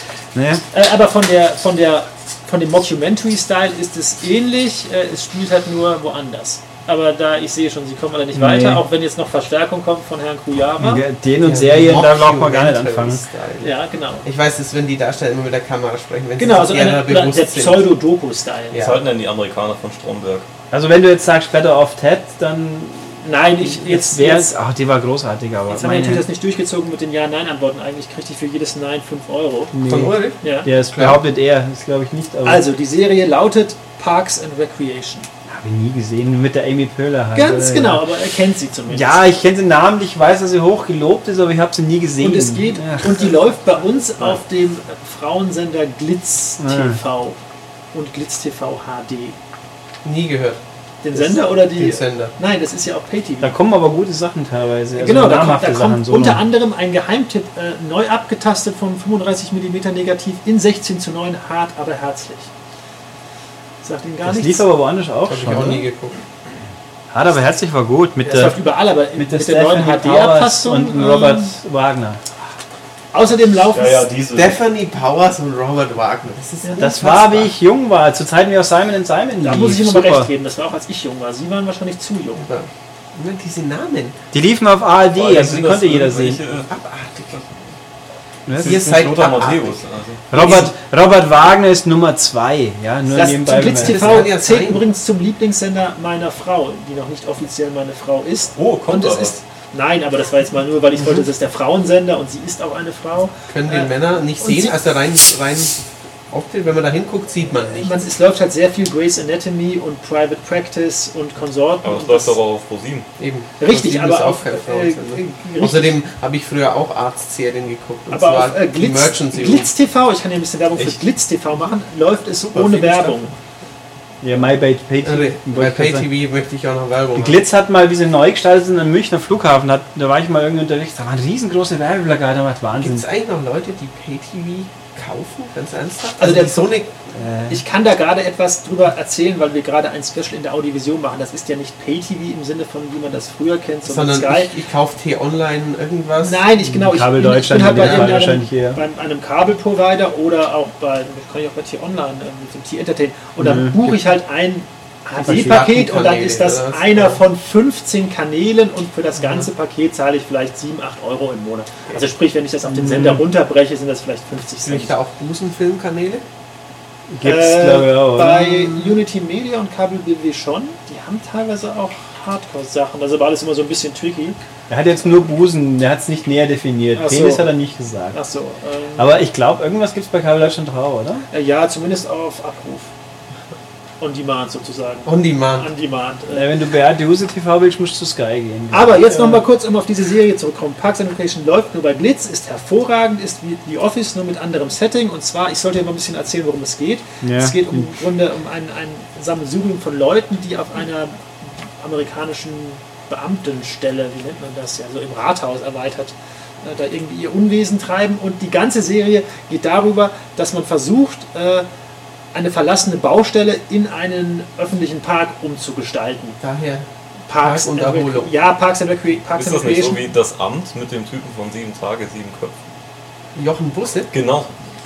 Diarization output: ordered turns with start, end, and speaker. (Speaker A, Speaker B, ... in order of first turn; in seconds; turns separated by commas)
Speaker A: 0.3-0.6, Speaker B: 0.7-11.1, Speaker A: 8.3-8.8, Speaker A: 10.8-13.2, Speaker C: 11.4-17.9, Speaker B: 13.6-14.3, Speaker B: 16.4-18.9, Speaker C: 18.7-19.0, Speaker D: 18.8-20.5, Speaker A: 20.7-26.3, Speaker B: 23.2-24.6, Speaker B: 25.7-29.7, Speaker A: 29.7-32.6, Speaker C: 29.9-31.2, Speaker B: 30.4-30.7, Speaker B: 32.4-35.3, Speaker A: 35.5-38.1, Speaker B: 37.4-39.2, Speaker A: 38.9-43.4, Speaker B: 42.2-47.4, Speaker A: 46.6-47.0, Speaker B: 47.9-49.4, Speaker C: 50.0-50.6, Speaker B: 51.0-53.6, Speaker C: 51.1-52.4, Speaker A: 53.4-56.4, Speaker B: 55.0-62.5, Speaker B: 63.8-64.7, Speaker A: 64.2-65.9, Speaker C: 65.2-66.2, Speaker A: 67.1-68.6, Speaker B: 68.3-71.5, Speaker A: 69.2-72.2, Speaker B: 73.1-74.1, Speaker D: 73.7-74.6, Speaker C: 74.3-77.5, Speaker B: 76.6-77.0, Speaker A: 76.8-80.3, Speaker B: 79.4-82.5, Speaker C: 82.4-84.2, Speaker A: 84.3-86.4, Speaker D: 85.2-86.7, Speaker C: 85.3-87.6, Speaker A: 88.5-88.9, Speaker C: 88.6-89.8, Speaker D: 88.6-90.3, Speaker A: 90.3-94.3, Speaker B: 90.4-90.6, Speaker B: 93.1-104.9, Speaker C: 93.6-94.9, Speaker D: 98.6-99.4, Speaker C: 103.5-108.0, Speaker B: 107.8-112.4, Speaker D: 111.8-113.1, Speaker C: 113.2-119.7, Speaker B: 113.6-116.0, Speaker B: 118.1-123.3, Speaker C: 122.5-123.3, Speaker A: 124.2-126.1, Speaker C: 125.0-127.4, Speaker A: 127.2-133.1, Speaker C: 132.8-136.9, Speaker B: 136.2-136.8, Speaker A: 137.1-137.6, Speaker B: 137.5-144.6, Speaker C: 143.8-146.5, Speaker B: 146.2-164.9, Speaker A: 146.6-148.8, Speaker C: 147.7-148.2, Speaker A: 153.4-154.0, Speaker C: 155.2-157.2, Speaker A: 155.2-155.6, Speaker A: 162.7-163.2, Speaker C: 164.6-166.2, Speaker A: 167.1-168.8, Speaker B: 167.2-174.4, Speaker A: 174.7-178.2, Speaker B: 176.9-177.6, Speaker B: 178.1-179.2, Speaker A: 179.0-181.2, Speaker B: 181.3-182.9, Speaker B: 184.0-186.5, Speaker C: 185.1-185.7, Speaker A: 186.3-189.4, Speaker B: 188.7-211.7, Speaker A: 197.2-197.9, Speaker B: 212.3-216.4, Speaker C: 216.4-216.9, Speaker B: 217.3-220.1, Speaker C: 217.4-218.3, Speaker D: 219.3-222.6, Speaker C: 223.3-224.1, Speaker D: 224.1-224.5